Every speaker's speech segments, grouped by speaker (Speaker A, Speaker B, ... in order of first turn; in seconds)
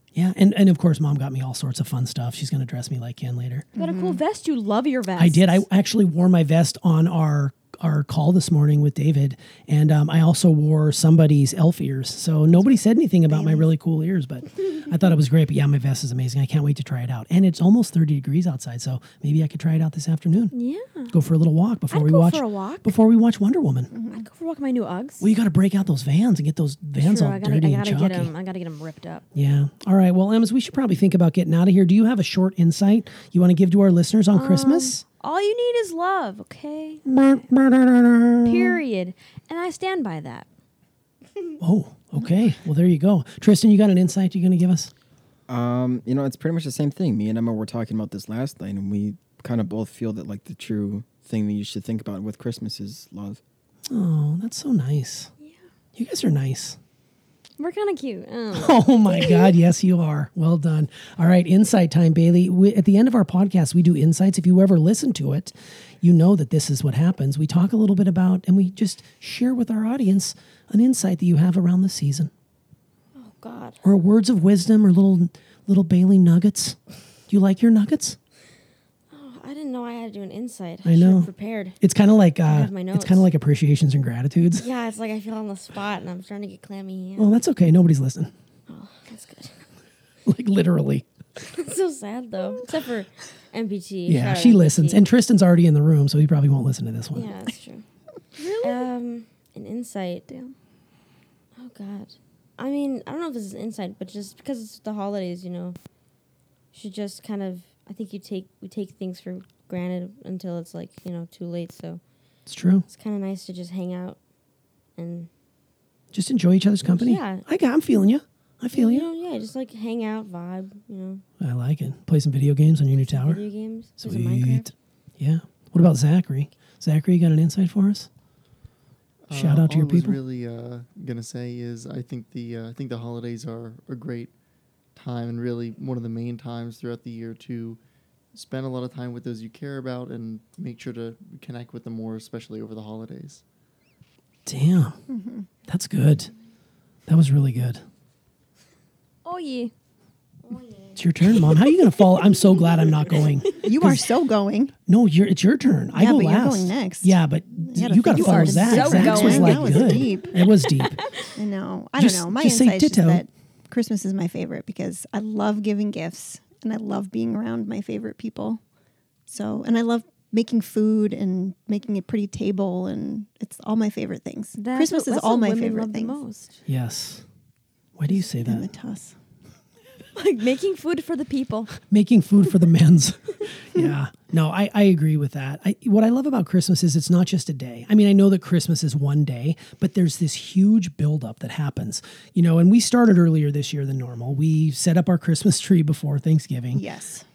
Speaker A: 0.1-3.7, 5.2-20.5, 21.1-23.9, 25.2-28.3, 29.3-35.0, 37.0-38.8, 41.6-44.9, 53.9-55.3, 55.9-56.8, 58.5-72.3, 73.8-78.2, 80.8-84.7, 87.2-88.3, 90.2-91.0, 94.1-97.3, 112.5-112.8, 116.1-119.1, 121.4-123.4, 124.0-128.1, 129.3-130.2, 144.4-145.0, 145.7-146.3, 147.1-147.8, 150.9-154.1, 154.9-161.0, 162.0-163.2, 176.7-177.2, 177.9-178.7, 181.8-196.8
Speaker B: 3.8-4.2, 23.9-24.2, 145.1-145.5, 153.6-154.7, 155.9-160.4, 161.3-168.6, 169.3-176.2, 178.1-179.2, 196.7-197.2
Speaker C: 3.8-5.6, 20.5-21.1, 21.9-22.9, 24.1-25.2, 27.0-29.2, 34.3-37.0, 38.4-40.5, 57.6-59.5, 98.3-98.9, 100.3-100.5, 149.2-149.7, 151.4-152.4, 158.1-161.3, 174.6-176.6, 180.1-181.7
Speaker D: 45.5-53.4
Speaker E: 73.1-73.8, 79.1-81.8, 82.4-83.3, 84.5-87.4, 88.7-89.7, 91.4-95.0, 97.1-97.8, 98.6-100.2, 101.5-105.8, 106.7-112.0, 112.9-114.2, 115.0-115.3, 116.8-117.4, 118.7-121.2, 123.0-124.7, 150.4-151.1
Speaker F: 129.2-134.3, 134.9-137.8, 138.3-143.4